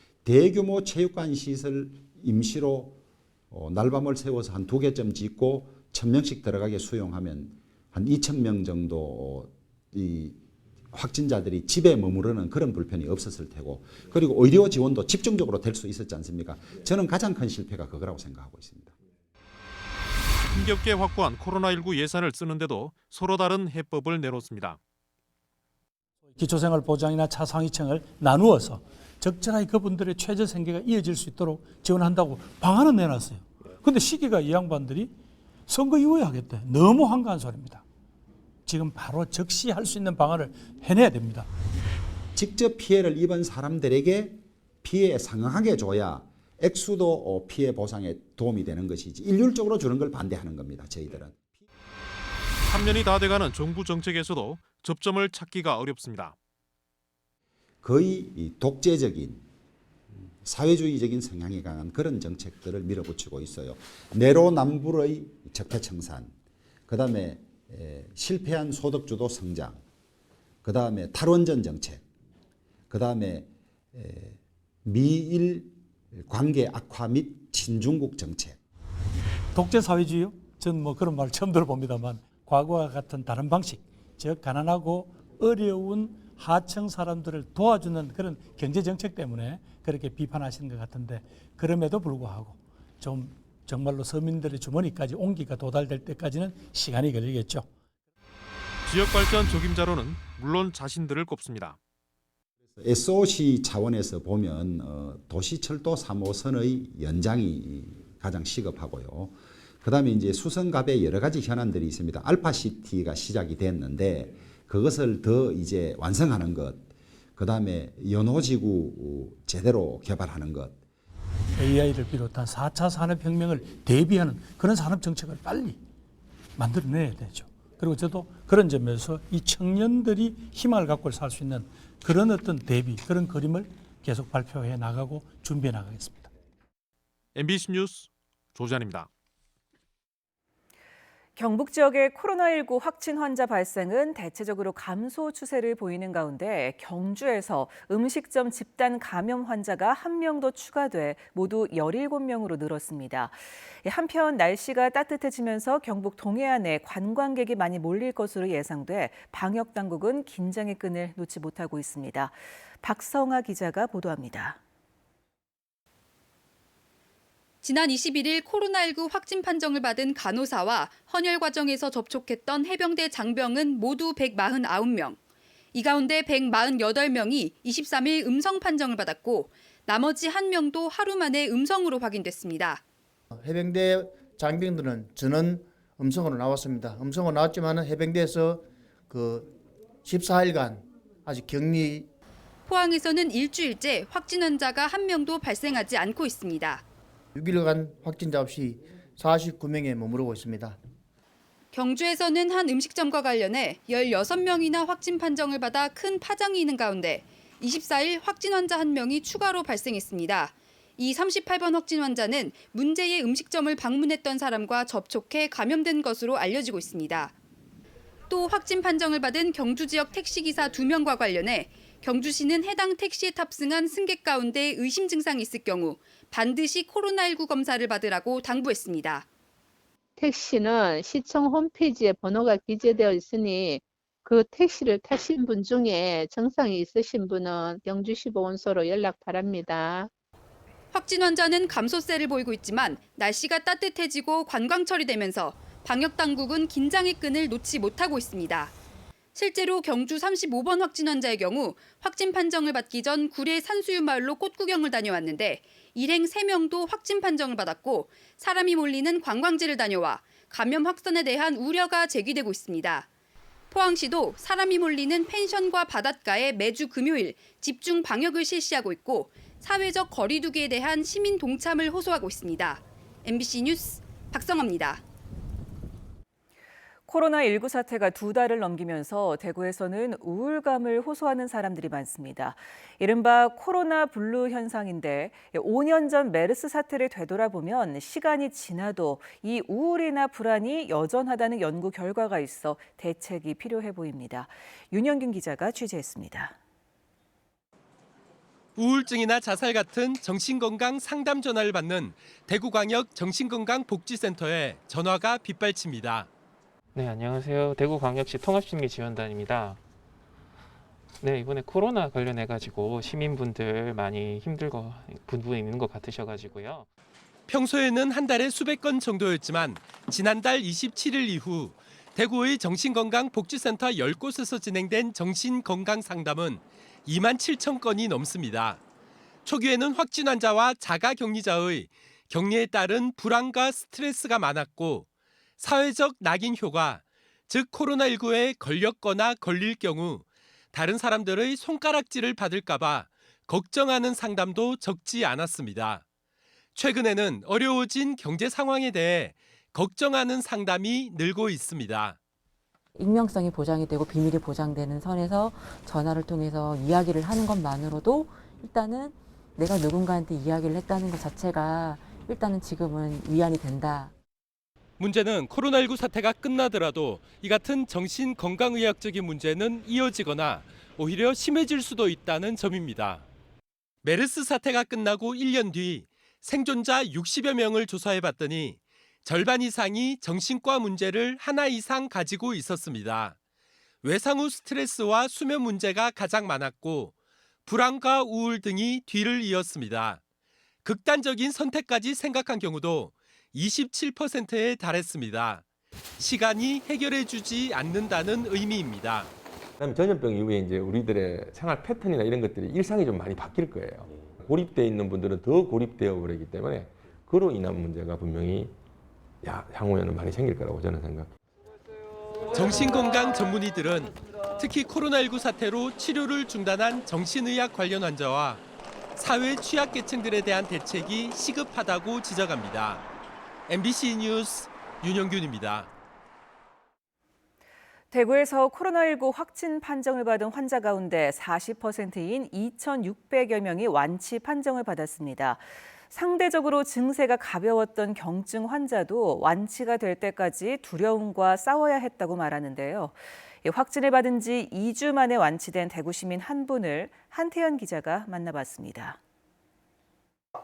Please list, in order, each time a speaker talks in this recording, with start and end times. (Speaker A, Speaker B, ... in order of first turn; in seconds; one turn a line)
Speaker A: 0.2-3.0
Speaker A: 3.5-10.4
Speaker A: 10.9-18.9
Speaker B: 20.5-24.8
Speaker C: 26.3-35.1
Speaker C: 35.7-37.8
Speaker C: 38.6-41.5
Speaker A: 42.3-51.5
Speaker B: 52.6-56.3
Speaker A: 57.8-59.5
Speaker A: 60.1-66.3
Speaker A: 66.9-69.8
Speaker A: 70.6-72.0
Speaker A: 72.9-78.6
Speaker C: 79.5-97.7
Speaker B: 98.8-101.8
Speaker A: 102.8-120.8
Speaker C: 121.5-125.8
Speaker C: 126.5-136.3
Speaker B: 137.3-139.1
Speaker D: 141.3-164.6
Speaker E: 167.6-175.2
Speaker E: 175.7-182.8
Speaker F: 183.3-192.1
Speaker E: 192.7-196.8
Speaker F: 197.3-200.8
Speaker E: 201.7-217.3
Speaker E: 218.3-229.3
Speaker G: 230.2-240.1
Speaker E: 240.9-248.7
Speaker E: 249.3-263.1
Speaker E: 263.7-275.0
Speaker D: 277.1-296.6
Speaker H: 298.8-306.3
Speaker I: 306.9-309.8
Speaker I: 311.2-316.9
Speaker H: 317.5-328.8
Speaker H: 329.4-335.1
Speaker H: 335.6-346.0
Speaker H: 346.7-352.2
Speaker J: 352.9-364.1
Speaker H: 365.0-373.2
Speaker H: 374.0-383.4
Speaker H: 384.0-387.1
Speaker H: 387.6-390.2
Speaker H: 390.8-395.6
Speaker H: 396.2-399.3
Speaker K: 399.8-408.8
Speaker K: 409.4-411.3
Speaker H: 412.5-418.6
Speaker H: 419.1-423.0
Speaker H: 423.7-425.9
Speaker D: 428.1-449.2